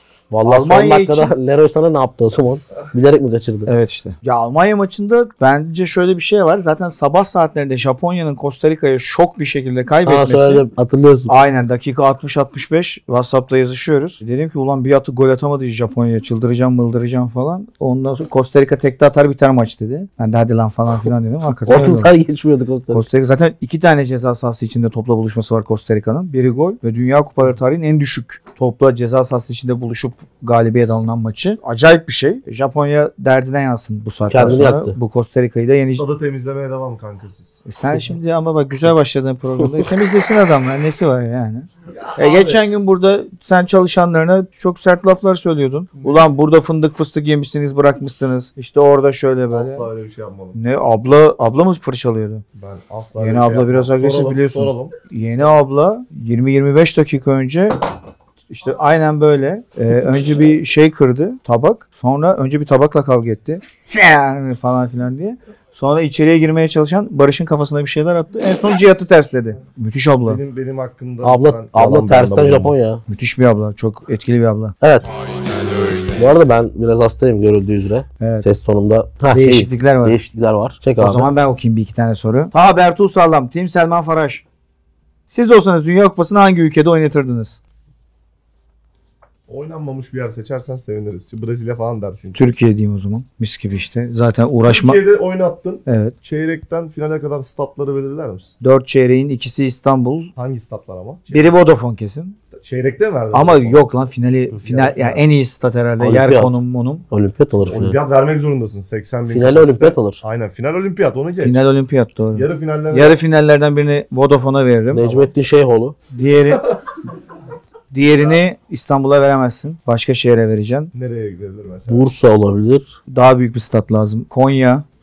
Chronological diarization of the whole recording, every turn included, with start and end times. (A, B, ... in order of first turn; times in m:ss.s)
0:00.3-0:03.7 A
0:00.4-0:01.3 B
0:03.7-0:10.7 B
0:10.0-0:11.3 A
0:11.3-0:22.1 B
0:21.7-0:23.0 A
0:22.9-0:36.0 B
0:34.3-0:35.0 A
0:35.9-0:37.6 C
0:37.7-0:49.9 B
0:42.0-0:42.6 C
0:46.0-0:46.3 C
0:49.5-0:50.6 C
0:50.6-0:52.4 B
0:52.6-0:54.9 C
0:53.2-0:57.8 B
0:58.5-1:10.4 B
1:10.2-1:12.8 C
1:11.2-1:13.0 A
1:13.1-1:14.8 B
1:14.8-1:15.1 A
1:16.1-1:21.3 A
1:18.2-1:18.5 B
1:19.3-1:20.2 B
1:21.0-1:24.4 B
1:25.3-1:27.6 B
1:29.5-1:32.4 C
1:32.4-1:35.0 B
1:34.6-1:38.6 C
1:35.9-1:36.1 B
1:38.6-1:40.3 B
1:40.4-1:41.5 C
1:41.3-1:42.4 B
1:42.6-1:43.8 C
1:43.3-1:47.0 B
1:44.5-1:45.3 C
1:46.0-1:46.6 A
1:47.1-1:48.0 A
1:47.7-1:51.6 C
1:49.3-1:50.2 A
1:51.4-1:55.3 B
1:52.3-1:53.2 C
1:54.9-1:56.0 A
1:56.1-1:56.8 B
1:57.9-2:00.9 B
2:00.9-2:02.1 C
2:01.9-2:02.9 A
2:03.1-2:04.8 B